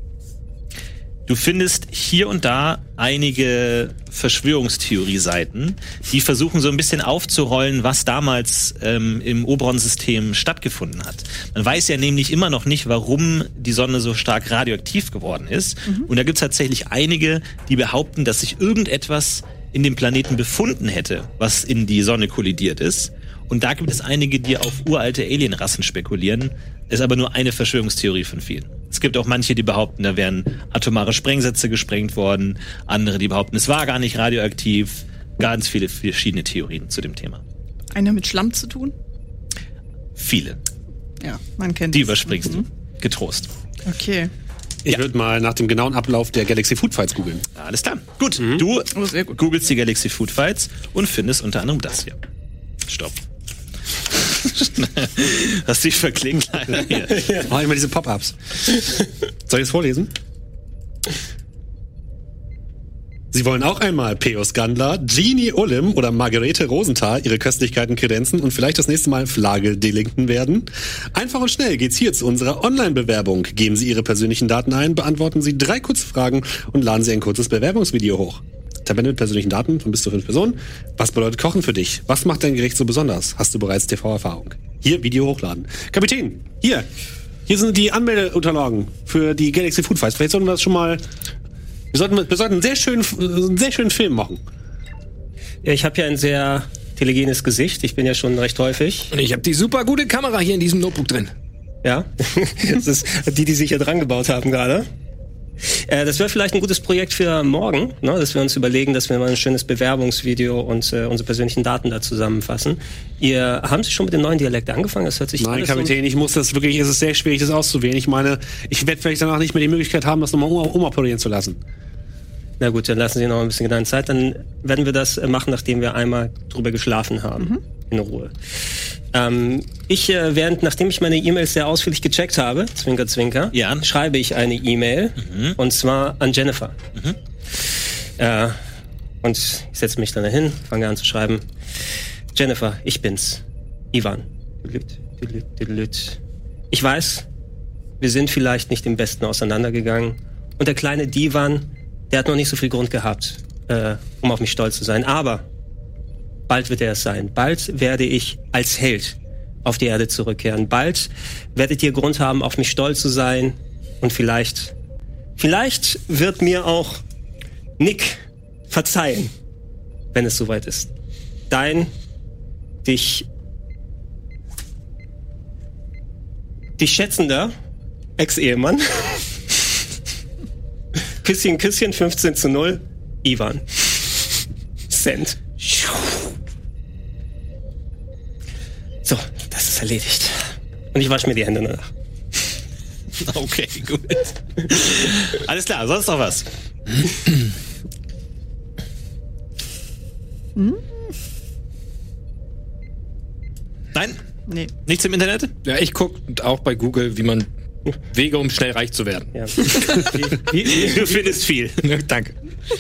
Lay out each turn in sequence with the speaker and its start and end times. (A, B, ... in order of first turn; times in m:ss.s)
0:01.3-0:37.4 A
0:37.9-0:38.9 B
0:40.2-0:40.6 A
0:41.2-0:42.6 B
0:41.9-0:43.5 A
0:43.8-0:44.3 B
0:44.8-0:47.4 C
0:47.6-0:52.2 A
0:48.9-0:49.3 B
0:52.8-0:53.2 A
0:54.1-0:57.3 A
0:57.2-0:57.5 D
0:57.4-1:00.1 C
1:03.3-1:26.9 C
1:27.5-1:31.0 C
1:31.9-1:34.4 C
1:35.6-1:39.1 D
1:39.1-1:41.3 E
1:41.8-1:44.9 D
1:45.6-1:55.9 D
1:55.4-2:01.6 C
2:02.6-2:08.3 D
2:09.1-2:16.8 D
2:13.5-2:13.8 A
2:15.2-2:15.6 A
2:18.2-2:18.6 D
2:19.2-2:21.4 D
2:22.3-2:23.4 D
2:23.9-2:26.2 D
2:26.7-2:27.2 D
2:28.0-2:35.4 D
2:36.5-2:44.7 D
2:45.4-2:47.0 D
2:47.8-2:49.3 D
2:50.1-2:50.9 D
2:51.5-2:51.9 D
2:52.8-2:53.3 D
2:56.8-2:57.5 D
2:58.2-2:59.3 D
3:01.2-3:04.3 D
3:04.9-3:06.2 D
3:09.0-3:10.4 D
3:10.9-3:11.9 D
3:13.2-3:16.4 A
3:20.6-3:21.1 B
3:23.9-3:24.2 A
3:24.8-3:25.5 A
3:25.6-3:27.5 E
3:28.1-3:30.0 E
3:29.3-3:31.3 D
3:30.6-3:31.9 A
3:31.8-3:32.3 E